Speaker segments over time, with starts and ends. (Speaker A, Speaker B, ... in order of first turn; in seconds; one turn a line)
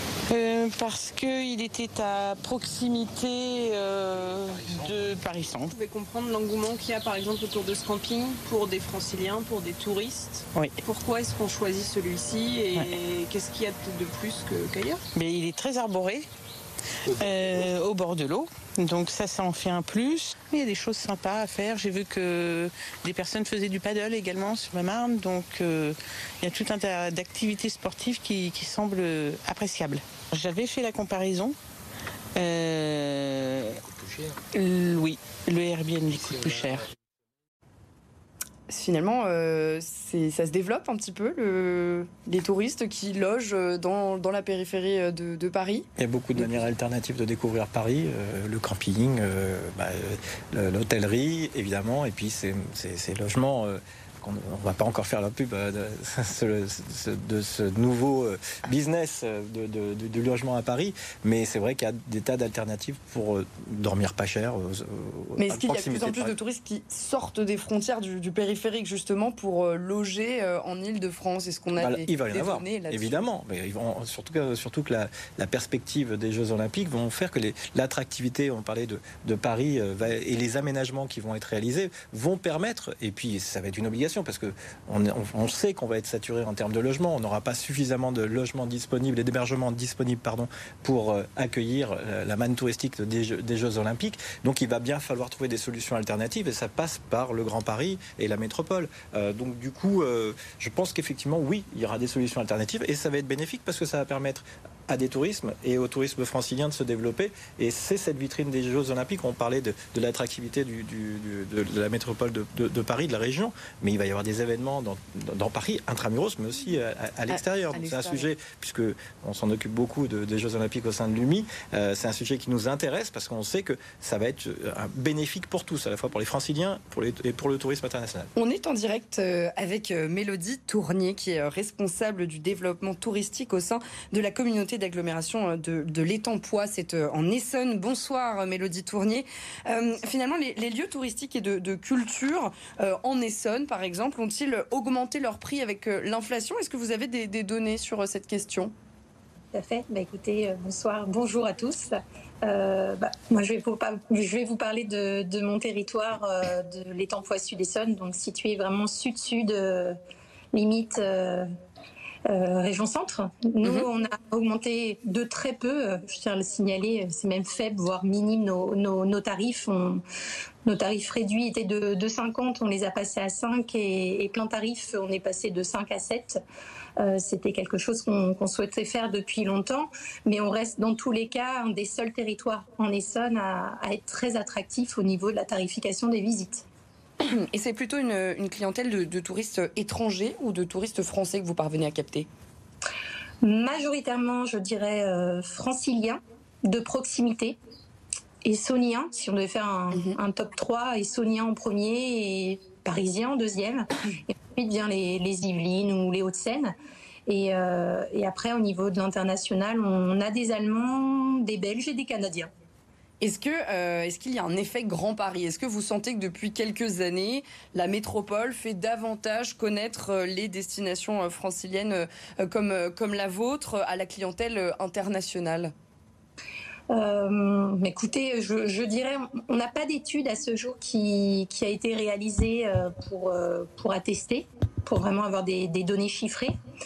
Speaker A: 0.3-5.7
Speaker B: 5.7-15.0
Speaker A: 15.1-16.3
Speaker A: 17.1-31.6
Speaker A: 32.4-34.0
Speaker A: 34.5-36.9
Speaker C: 38.7-46.7
Speaker D: 46.0-66.3
Speaker C: 65.4-73.3
Speaker D: 71.8-128.3
Speaker C: 117.3-118.3
Speaker C: 128.4-148.7
Speaker E: 149.5-160.0
Speaker E: 160.5-161.5
Speaker E: 162.3-170.0
Speaker E: 170.7-176.4
Speaker E: 177.0-186.7
Speaker C: 187.2-192.3
Speaker E: 193.4-197.6
Speaker E: 198.4-203.9
Speaker E: 204.6-206.7
Speaker E: 207.3-212.5
Speaker C: 213.2-225.7
Speaker E: 226.9-236.5